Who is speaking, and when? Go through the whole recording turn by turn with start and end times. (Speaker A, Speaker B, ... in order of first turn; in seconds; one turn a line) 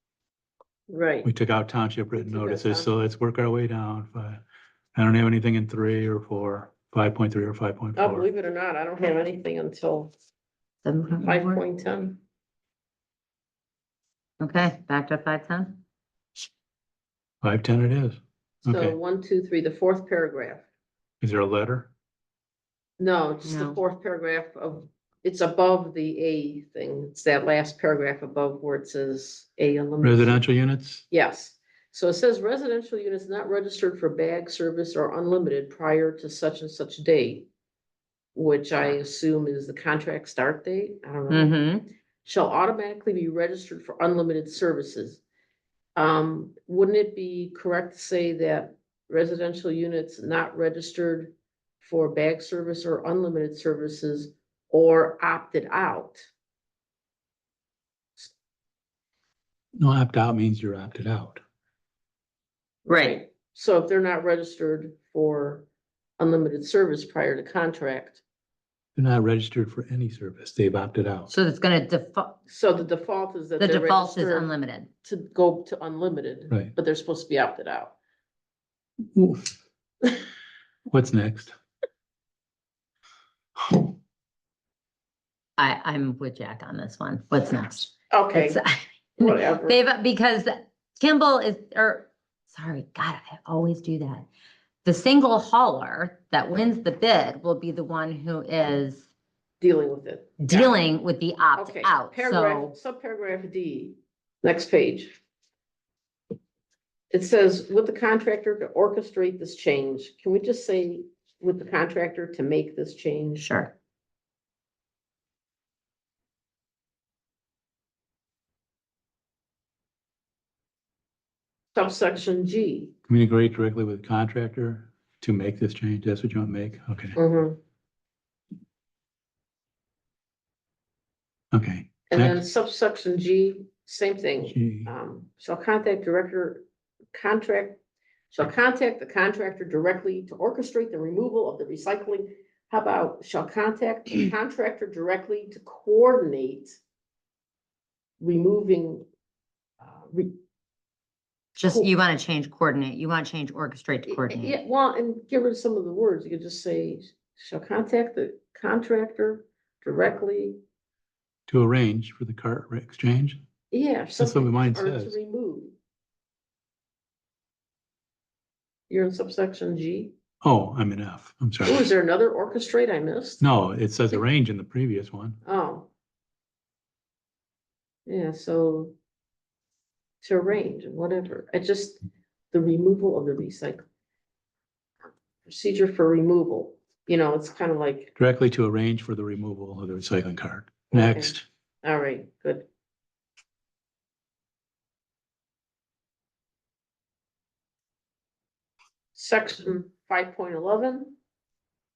Speaker A: 0.9-1.3
Speaker B: 1.2-4.4
Speaker A: 2.2-2.9
Speaker B: 4.9-8.2
Speaker A: 8.0-10.1
Speaker C: 10.8-11.6
Speaker A: 11.2-12.2
Speaker C: 14.4-15.8
Speaker B: 17.4-18.9
Speaker A: 18.6-20.6
Speaker B: 21.2-21.9
Speaker A: 23.0-30.4
Speaker C: 23.4-23.8
Speaker B: 30.0-31.0
Speaker A: 31.1-37.5
Speaker A: 38.4-41.6
Speaker C: 41.3-41.9
Speaker A: 42.2-45.2
Speaker A: 46.0-56.3
Speaker B: 59.8-61.4
Speaker C: 62.9-63.2
Speaker A: 62.9-65.7
Speaker A: 66.2-68.2
Speaker B: 68.9-71.3
Speaker C: 71.3-72.4
Speaker A: 72.5-78.0
Speaker C: 73.6-74.9
Speaker B: 79.1-79.5
Speaker B: 80.9-81.5
Speaker C: 85.6-94.3
Speaker A: 88.1-88.6
Speaker A: 89.2-89.8
Speaker C: 94.8-99.0
Speaker A: 99.6-100.8
Speaker C: 100.4-102.7
Speaker A: 101.5-105.2
Speaker A: 107.1-113.6
Speaker C: 113.4-113.7
Speaker A: 121.7-122.9
Speaker B: 123.1-127.2
Speaker A: 127.1-127.6
Speaker B: 131.5-132.4
Speaker A: 132.1-146.8
Speaker B: 134.4-134.9
Speaker A: 148.2-149.1
Speaker A: 149.8-150.3
Speaker C: 151.6-154.6
Speaker A: 151.6-151.9
Speaker A: 154.1-160.6
Speaker B: 161.5-163.4
Speaker A: 163.7-165.8
Speaker B: 164.2-165.2
Speaker A: 168.9-170.1
Speaker B: 170.4-171.9
Speaker A: 171.6-173.4
Speaker B: 173.4-175.4
Speaker A: 175.4-175.9
Speaker A: 178.1-178.9
Speaker A: 180.2-182.0
Speaker A: 182.5-183.8
Speaker A: 185.4-188.1
Speaker B: 188.2-191.4
Speaker A: 190.9-192.7
Speaker A: 199.1-201.2